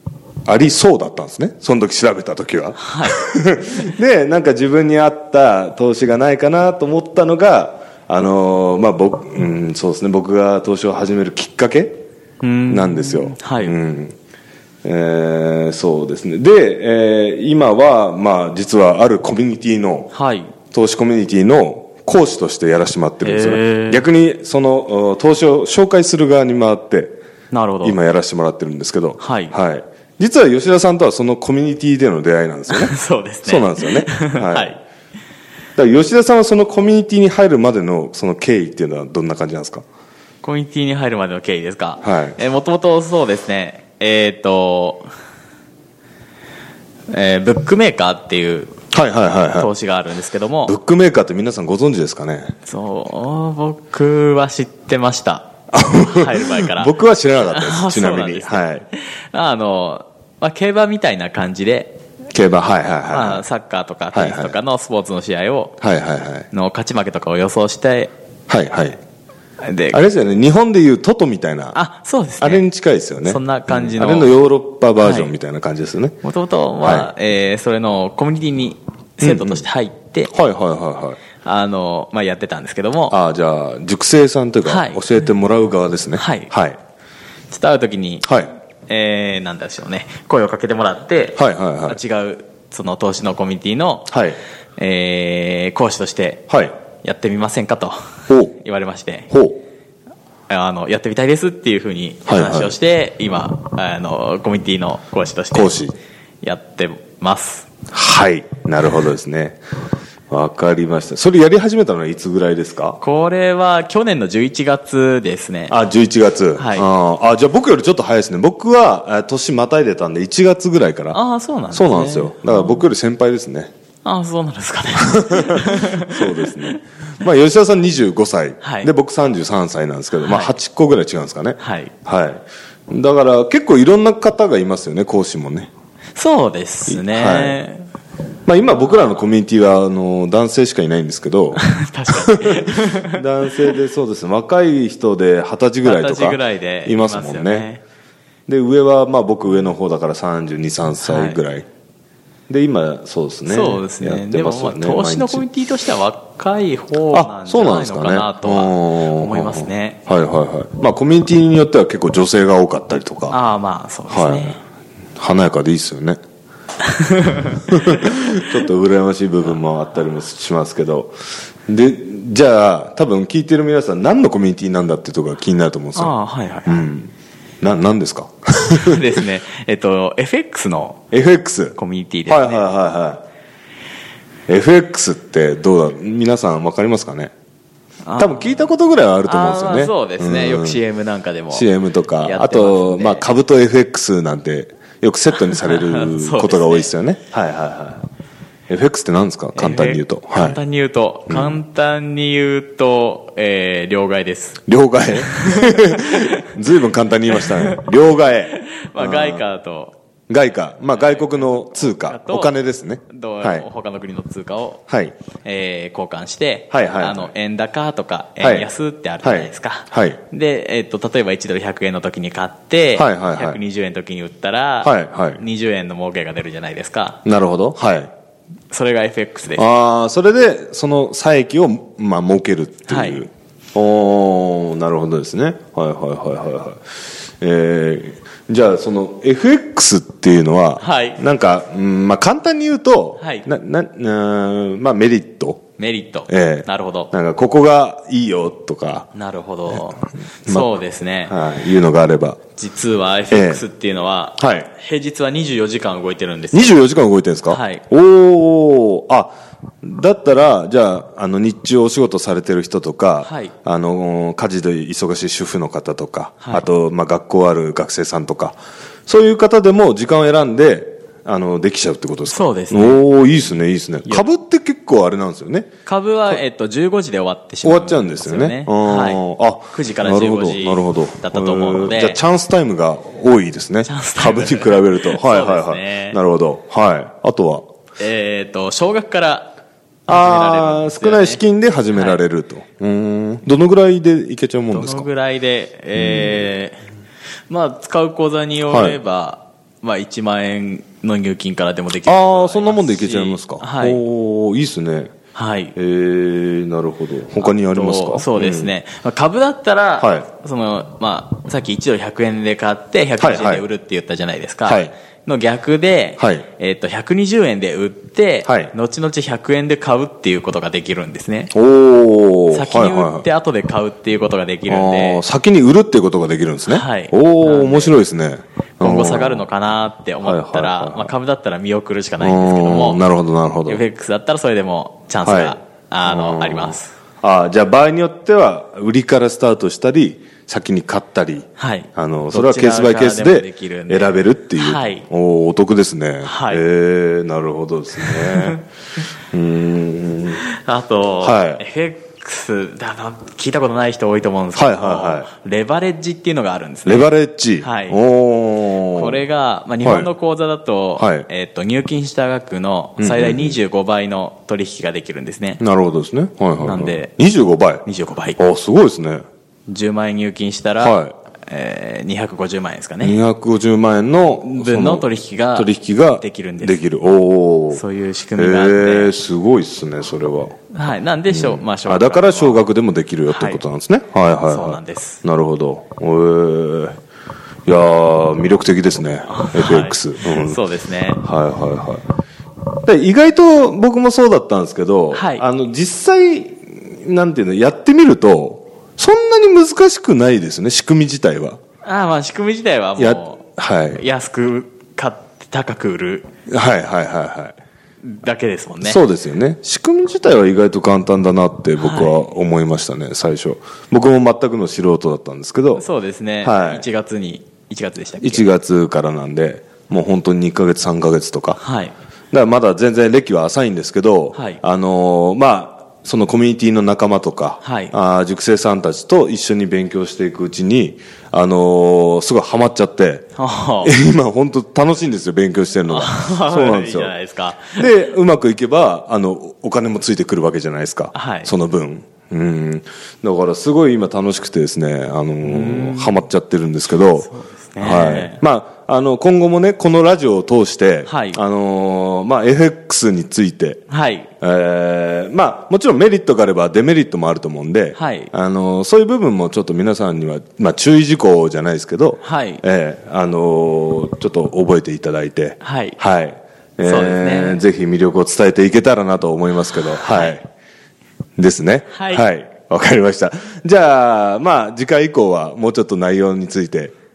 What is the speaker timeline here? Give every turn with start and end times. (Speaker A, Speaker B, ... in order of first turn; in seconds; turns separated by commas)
Speaker A: 0.5-12.0, Speaker B: 2.8-3.2, Speaker B: 12.4-13.8, Speaker A: 12.7-14.2, Speaker A: 14.8-20.1, Speaker B: 20.1-20.5, Speaker A: 20.7-27.2, Speaker B: 23.2-24.1, Speaker B: 27.5-28.0, Speaker A: 27.8-34.8, Speaker B: 29.2-29.5, Speaker B: 32.7-34.8, Speaker A: 35.8-39.8, Speaker B: 40.4-45.1, Speaker A: 42.0-42.4, Speaker B: 47.1-48.7, Speaker A: 48.9-49.7, Speaker B: 49.5-50.8, Speaker A: 50.7-52.5, Speaker B: 52.7-56.9, Speaker A: 55.7-58.9, Speaker B: 57.5-62.0, Speaker A: 62.3-63.4, Speaker B: 63.1-65.8, Speaker A: 64.1-64.6, Speaker A: 65.8-66.5, Speaker B: 66.5-68.1, Speaker A: 68.5-69.0, Speaker B: 69.6-70.0, Speaker A: 69.9-71.8, Speaker B: 71.7-72.6, Speaker A: 72.4-76.2, Speaker B: 73.2-74.3, Speaker B: 75.0-75.3, Speaker B: 76.2-80.3, Speaker A: 76.8-77.1, Speaker A: 79.2-79.7, Speaker A: 80.3-81.2, Speaker B: 81.4-83.2, Speaker A: 83.1-86.8, Speaker B: 84.7-85.0, Speaker B: 86.2-86.5, Speaker B: 87.5-88.3, Speaker A: 88.2-88.5, Speaker B: 88.9-94.1, Speaker A: 91.4-92.0, Speaker A: 94.1-94.4, Speaker B: 94.8-98.0, Speaker A: 96.5-96.7, Speaker A: 98.3-98.6, Speaker B: 98.6-99.3, Speaker A: 99.3-99.6, Speaker B: 100.5-105.8, Speaker A: 102.2-102.8, Speaker A: 105.5-105.9, Speaker B: 106.4-107.7, Speaker A: 107.9-109.6, Speaker A: 110.3-113.0, Speaker B: 113.0-115.8, Speaker A: 115.7-121.2, Speaker B: 116.6-116.9, Speaker B: 121.1-122.8, Speaker A: 121.7-123.7, Speaker B: 124.0-126.7, Speaker A: 125.1-135.7, Speaker B: 128.6-128.9, Speaker B: 130.2-130.5, Speaker B: 131.6-131.9, Speaker B: 136.2-137.9, Speaker A: 136.9-137.6, Speaker A: 138.4-147.7, Speaker B: 141.6-143.2, Speaker B: 145.8-147.8, Speaker A: 148.5-151.7, Speaker B: 151.0-151.4, Speaker A: 152.5-155.4, Speaker B: 153.4-160.0, Speaker A: 157.1-163.4, Speaker B: 163.3-164.6, Speaker A: 164.1-164.6, Speaker A: 165.2-166.2, Speaker B: 166.8-168.4, Speaker A: 167.7-171.1, Speaker A: 171.7-176.2, Speaker B: 175.9-176.9, Speaker A: 176.7-177.1, Speaker A: 177.6-179.0, Speaker B: 178.7-181.0, Speaker A: 181.1-183.2, Speaker B: 181.8-182.7, Speaker A: 184.5-187.3, Speaker B: 188.1-188.7, Speaker A: 188.2-190.8, Speaker B: 189.2-191.7, Speaker A: 191.5-198.1, Speaker B: 192.2-193.3, Speaker B: 195.6-196.9, Speaker A: 198.7-200.6, Speaker B: 199.6-204.6, Speaker A: 201.3-201.6, Speaker A: 204.7-209.4, Speaker B: 205.3-206.3, Speaker B: 208.6-209.9, Speaker A: 210.3-213.7, Speaker B: 210.9-212.6, Speaker B: 213.1-214.8, Speaker A: 214.9-215.2, Speaker B: 215.4-227.2, Speaker A: 216.7-217.3, Speaker A: 218.4-218.7, Speaker A: 219.2-220.2, Speaker A: 222.9-223.6, Speaker A: 224.8-225.4, Speaker A: 227.2-228.1, Speaker B: 228.7-229.7, Speaker A: 229.6-236.8, Speaker B: 232.9-233.2, Speaker A: 237.4-245.6, Speaker B: 240.8-241.2, Speaker B: 243.2-243.4, Speaker B: 245.8-247.1, Speaker A: 246.3-249.1, Speaker B: 249.1-251.3, Speaker A: 250.4-250.7, Speaker A: 251.3-252.4, Speaker B: 252.6-256.8, Speaker A: 253.3-253.6, Speaker A: 254.4-254.7, Speaker A: 256.5-259.3, Speaker B: 257.5-257.8, Speaker A: 259.8-275.7, Speaker B: 263.2-263.5, Speaker B: 272.3-273.0, Speaker B: 275.9-282.2, Speaker A: 277.6-287.7, Speaker B: 283.8-286.2, Speaker B: 288.0-289.6, Speaker B: 290.1-291.4, Speaker A: 290.1-295.1, Speaker B: 291.9-292.2, Speaker B: 294.7-296.8, Speaker A: 295.9-296.5, Speaker B: 297.5-304.0, Speaker A: 298.7-299.0, Speaker A: 302.0-305.1, Speaker B: 305.3-305.8, Speaker A: 305.8-308.7, Speaker B: 307.4-321.5, Speaker A: 310.0-310.3, Speaker A: 313.2-313.6, Speaker A: 314.7-314.9, Speaker A: 316.2-316.4, Speaker A: 318.4-318.7, Speaker A: 321.5-323.3, Speaker B: 322.5-325.2, Speaker A: 324.7-329.4, Speaker B: 326.7-328.0, Speaker B: 328.8-333.1, Speaker A: 330.2-331.1, Speaker A: 332.2-333.8, Speaker B: 333.7-336.9, Speaker A: 335.2-348.6, Speaker B: 341.6-345.1, Speaker B: 346.2-346.6, Speaker B: 348.0-348.6, Speaker A: 349.3-350.4, Speaker B: 350.4-358.0, Speaker A: 351.2-351.6, Speaker A: 354.6-355.3, Speaker A: 356.9-359.2, Speaker B: 358.8-365.6, Speaker A: 359.8-360.1, Speaker A: 361.0-361.3, Speaker A: 363.0-363.6, Speaker A: 365.6-367.8, Speaker B: 366.6-367.1, Speaker B: 367.8-368.4, Speaker A: 368.4-369.2, Speaker B: 369.7-373.2, Speaker A: 370.8-371.1, Speaker A: 373.0-377.8, Speaker B: 374.5-376.8, Speaker B: 377.7-379.1, Speaker A: 378.4-380.6, Speaker B: 380.7-382.6, Speaker A: 381.3-386.9, Speaker B: 383.3-383.6, Speaker B: 384.4-385.2, Speaker A: 387.7-390.6, Speaker B: 389.3-391.2, Speaker A: 391.2-392.0, Speaker A: 392.8-401.6, Speaker B: 395.1-395.4, Speaker B: 401.8-403.4, Speaker A: 403.0-404.0, Speaker B: 403.9-406.3, Speaker A: 406.5-407.6, Speaker B: 408.1-409.0, Speaker A: 408.8-415.8, Speaker B: 411.8-412.2, Speaker B: 415.7-418.5, Speaker A: 416.4-416.9, Speaker A: 418.2-421.6, Speaker B: 421.6-421.9, Speaker A: 422.3-433.3, Speaker B: 424.3-424.6, Speaker B: 427.6-427.9, Speaker B: 433.4-433.9, Speaker A: 433.8-437.1, Speaker B: 435.9-437.9, Speaker A: 437.7-453.8, Speaker B: 441.1-441.5, Speaker B: 445.4-446.2, Speaker B: 447.2-448.4, Speaker B: 451.1-451.4, Speaker B: 453.9-454.3, Speaker A: 454.4-470.4, Speaker B: 457.9-458.3, Speaker B: 462.2-462.6, Speaker B: 465.6-466.0, Speaker B: 466.8-467.6, Speaker B: 470.0-470.4, Speaker A: 471.4-476.9, Speaker B: 471.9-472.3